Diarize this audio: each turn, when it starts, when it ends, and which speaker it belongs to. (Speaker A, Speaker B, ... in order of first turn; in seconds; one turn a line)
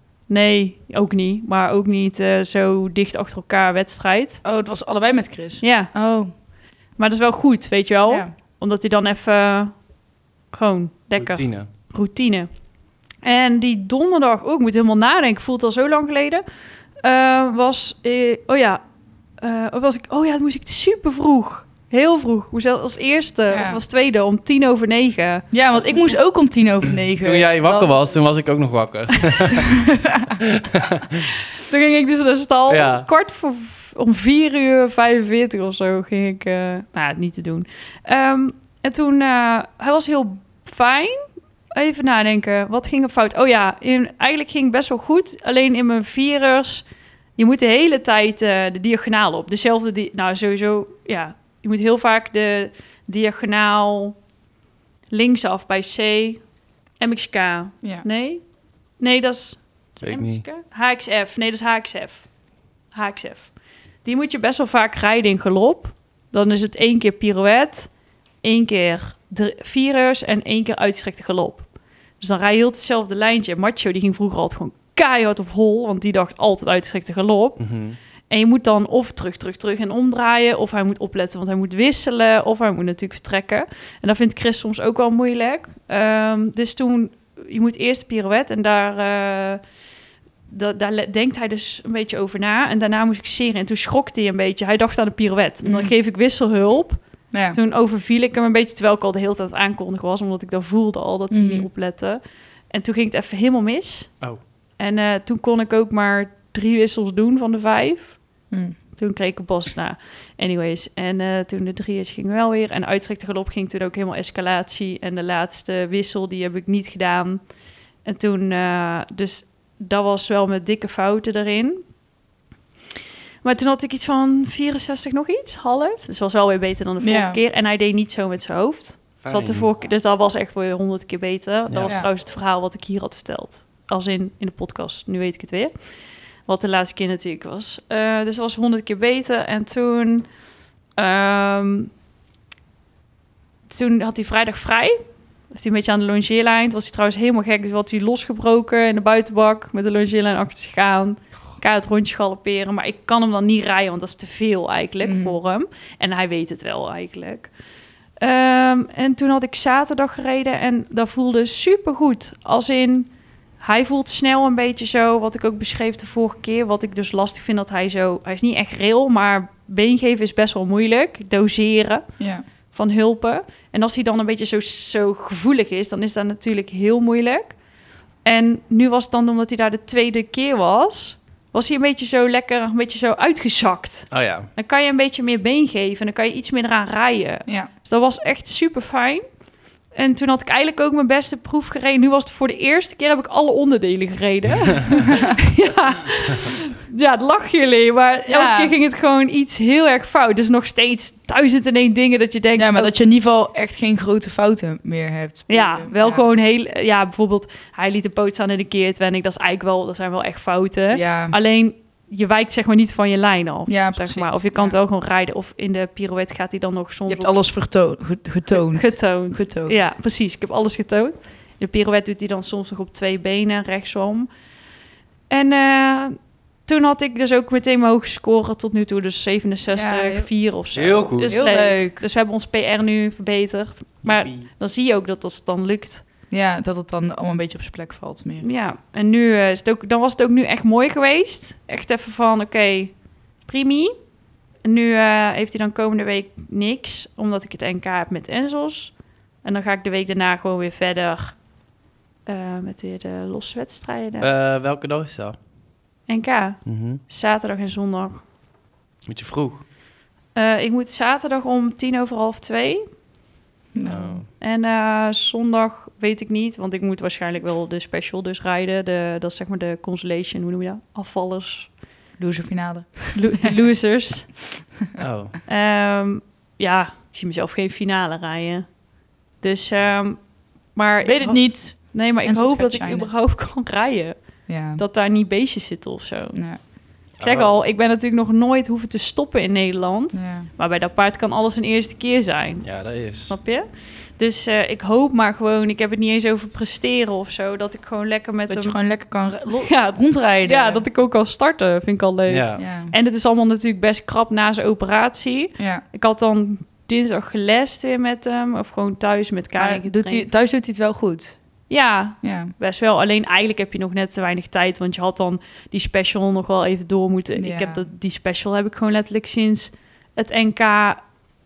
Speaker A: 0.3-4.4
Speaker B: 4.4-6.3
Speaker A: 5.6-5.9
Speaker A: 7.0-9.8
Speaker B: 8.1-8.3
Speaker A: 10.5-12.5
Speaker C: 11.2-11.7
Speaker A: 13.2-16.4
Speaker A: 17.0-18.8
Speaker A: 19.4-26.2
Speaker B: 23.5-23.8
Speaker B: 25.5-28.2
Speaker C: 27.2-29.7
Speaker B: 29.6-30.4
Speaker C: 30.4-31.2
Speaker A: 31.5-46.9
Speaker C: 32.7-33.1
Speaker A: 47.4-54.2
Speaker A: 55.1-56.4
Speaker A: 57.0-58.4
Speaker A: 59.0-62.3
Speaker C: 60.0-60.4
Speaker A: 62.9-63.5
Speaker A: 64.0-67.9
Speaker A: 68.4-77.7
Speaker C: 77.6-78.0
Speaker A: 78.3-89.6
Speaker A: 90.5-104.2
Speaker B: 95.6-95.9
Speaker B: 97.3-97.6
Speaker B: 101.3-101.7
Speaker A: 104.8-108.2
Speaker A: 109.0-117.4
Speaker A: 118.0-121.8
Speaker A: 123.4-135.7
Speaker B: 127.0-127.4
Speaker C: 129.2-129.7
Speaker C: 131.7-131.9
Speaker A: 136.4-140.3
Speaker A: 141.0-141.9
Speaker A: 143.7-157.5
Speaker B: 155.0-155.4
Speaker A: 158.2-172.0
Speaker B: 172.2-172.4
Speaker A: 172.7-177.6
Speaker A: 178.2-189.2
Speaker C: 184.1-184.5
Speaker A: 189.9-202.9
Speaker B: 195.1-195.3
Speaker B: 198.3-198.7
Speaker B: 202.6-206.2
Speaker A: 205.5-217.3
Speaker B: 210.9-211.3
Speaker B: 213.7-214.8
Speaker B: 217.1-219.9
Speaker A: 218.5-224.3
Speaker A: 225.3-236.0
Speaker B: 229.7-230.3
Speaker C: 230.7-231.4
Speaker B: 231.3-232.0
Speaker C: 234.0-234.5
Speaker B: 236.3-238.4
Speaker A: 238.4-243.9
Speaker A: 244.6-251.4
Speaker A: 252.2-254.3
Speaker C: 254.2-255.4
Speaker A: 256.1-258.2
Speaker C: 256.6-257.0
Speaker C: 259.1-259.6
Speaker A: 260.3-262.8
Speaker B: 263.7-264.2
Speaker C: 263.8-264.3
Speaker A: 264.4-271.7
Speaker B: 272.2-273.5
Speaker A: 273.1-274.3
Speaker C: 275.0-275.4
Speaker A: 275.5-278.7
Speaker A: 279.4-286.4
Speaker B: 281.0-283.1
Speaker B: 284.5-284.8
Speaker B: 286.3-286.6
Speaker C: 287.2-287.6
Speaker A: 287.2-298.8
Speaker B: 290.1-290.5
Speaker C: 292.6-293.4
Speaker B: 298.5-300.9
Speaker A: 299.6-310.3
Speaker C: 302.3-302.6
Speaker B: 302.6-302.9
Speaker B: 305.6-305.8
Speaker B: 309.6-311.4
Speaker A: 311.7-321.0
Speaker B: 312.2-312.5
Speaker B: 317.4-317.8